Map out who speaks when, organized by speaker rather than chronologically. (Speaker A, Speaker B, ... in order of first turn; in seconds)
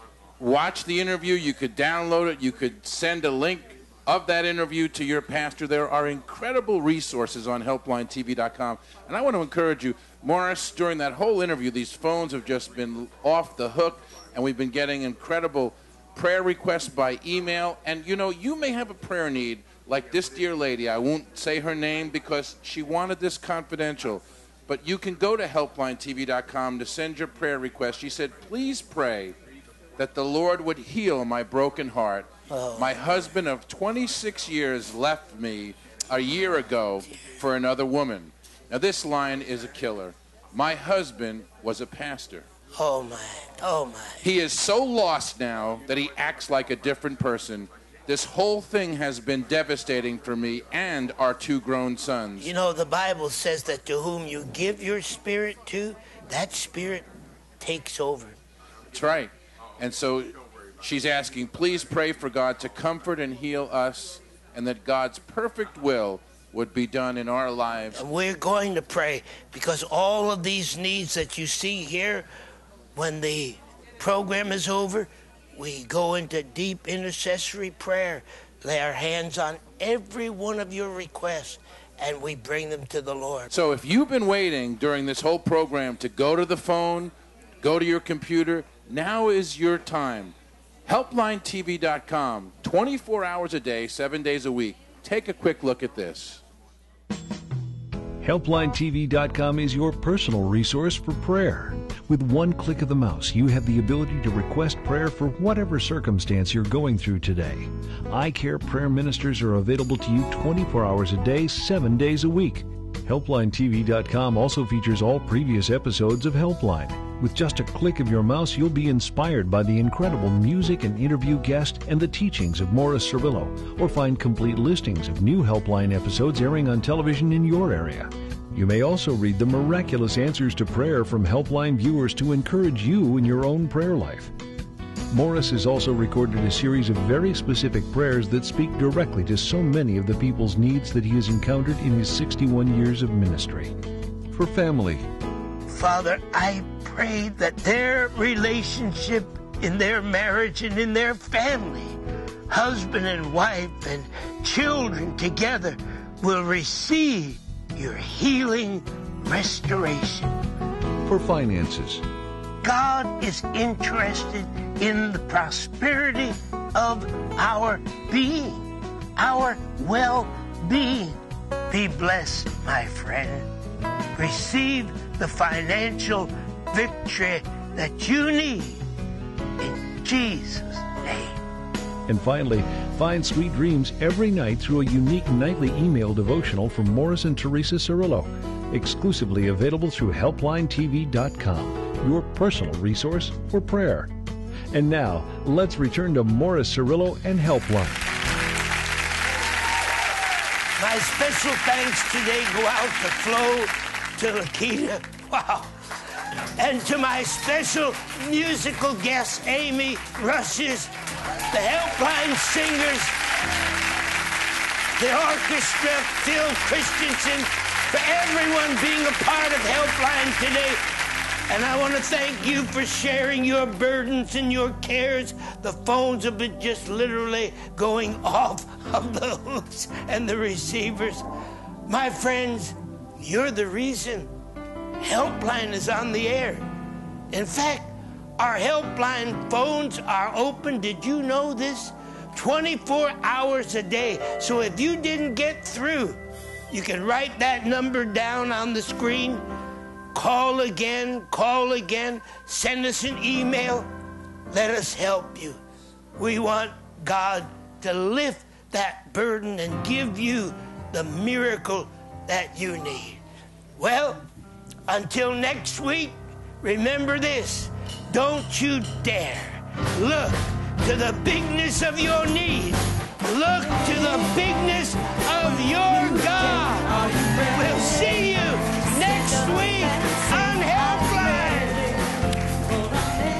Speaker A: 0.4-29.4, 30.0-42.5, 44.2-52.5, 58.9-60.3, 60.8-68.0, 83.5-90.3, 90.9-96.4
Speaker B: 32.5-33.0, 42.8-44.2, 52.4-57.1, 57.6-58.4, 67.9-72.3, 72.9-83.5, 145.7-152.0, 152.5-160.4, 162.6-168.6, 169.2-171.2, 171.7-173.5, 174.1-178.8, 179.6-181.4, 200.8-205.8, 206.6-210.9, 211.5-213.1, 215.0-220.8, 221.5-231.2, 231.9-234.3, 235.0-236.7, 237.3-249.4, 250.1-253.9, 254.5-255.6, 256.1-263.2, 263.8-264.2, 264.9-281.9
Speaker C: 98.2-134.3, 135.1-143.7, 144.3-145.1, 161.0-162.0, 182.1-194.1, 194.7-198.1